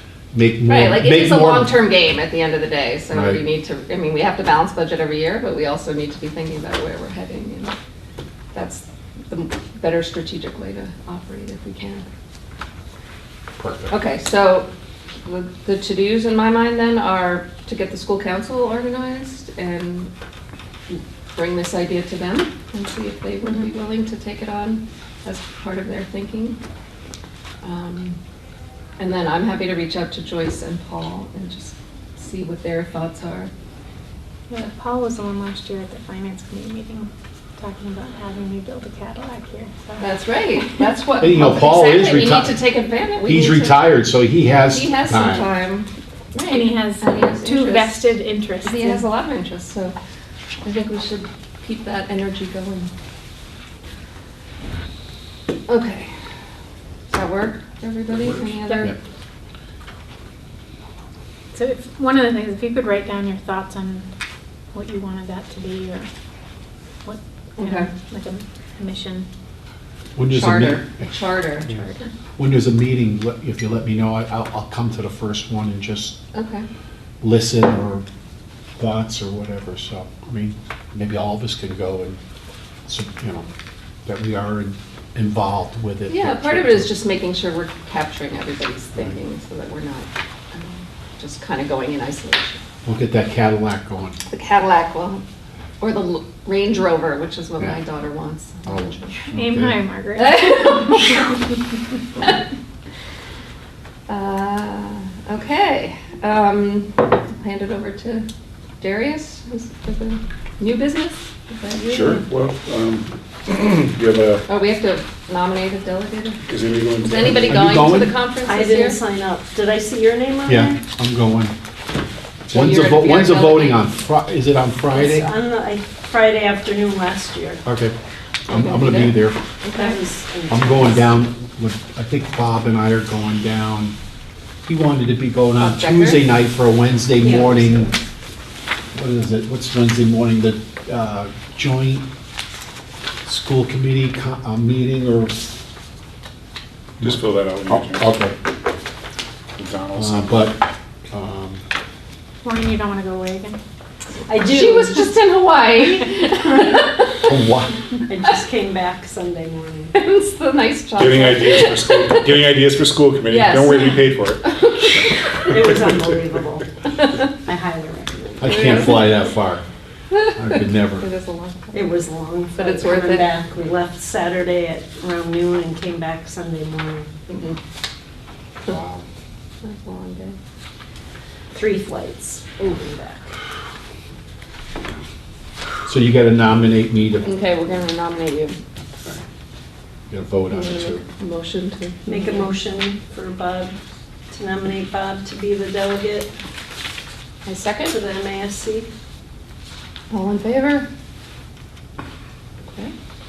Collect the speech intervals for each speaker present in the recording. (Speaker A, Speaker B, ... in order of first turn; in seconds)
Speaker A: 0.3-1.7, 3.1-3.4, 13.6-13.9, 41.2-42.6, 43.2-45.5, 70.2-71.1, 72.4-76.2, 77.2-78.0, 78.8-82.2, 82.9-83.5, 84.0-86.9, 92.8-94.2, 98.7-99.8, 117.4-118.1, 120.5-121.5, 122.5-125.3, 127.6-127.9, 128.5-129.4, 130.5-133.9, 134.7-137.9, 138.9-142.0, 143.2-145.5, 147.0-148.3, 149.9-151.6, 157.2-157.8, 168.4-169.6, 170.3-171.0, 178.7-179.0, 185.8-187.3, 190.1-191.0
Speaker B: 0.7-7.7, 8.5-12.1, 13.9-14.7, 15.2-20.1, 20.9-26.6, 27.6-28.2, 29.0-33.5, 40.0-43.9, 44.7-48.1, 48.6-49.9, 50.6-52.9, 55.7-56.1, 57.1-59.0, 67.6-67.9, 70.3-71.7, 76.3-76.6, 86.1-92.6, 94.3-95.2, 95.8-99.3, 100.2-101.3, 104.1-108.2, 108.8-112.2, 114.5-116.4, 117.0-119.0, 122.5-123.8, 128.5-130.0, 135.6-136.3, 154.4-157.3, 159.9-162.2, 163.3-165.6, 168.4-169.2, 170.9-172.0, 172.5-173.3, 177.3-177.6, 179.6-180.4, 187.2-188.6, 190.5-192.5, 197.4-198.0, 200.1-200.9
Speaker C: 34.5-40.9, 46.4-49.0, 58.3-58.9, 61.5-64.1, 64.7-66.1, 67.0-69.3, 71.7-71.9, 99.3-101.4, 152.4-153.6
Speaker D: 111.8-114.4, 116.4-117.8, 147.0-148.2, 149.6-150.5, 161.0-166.0
Speaker E: 118.4-120.8, 124.9-127.6, 129.7-131.2, 137.2-137.9, 154.3-155.1, 158.1-159.9, 165.5-166.7, 167.4-168.6, 171.7-177.1, 181.5-183.3, 192.1-193.8, 194.3-196.3, 197.9-198.9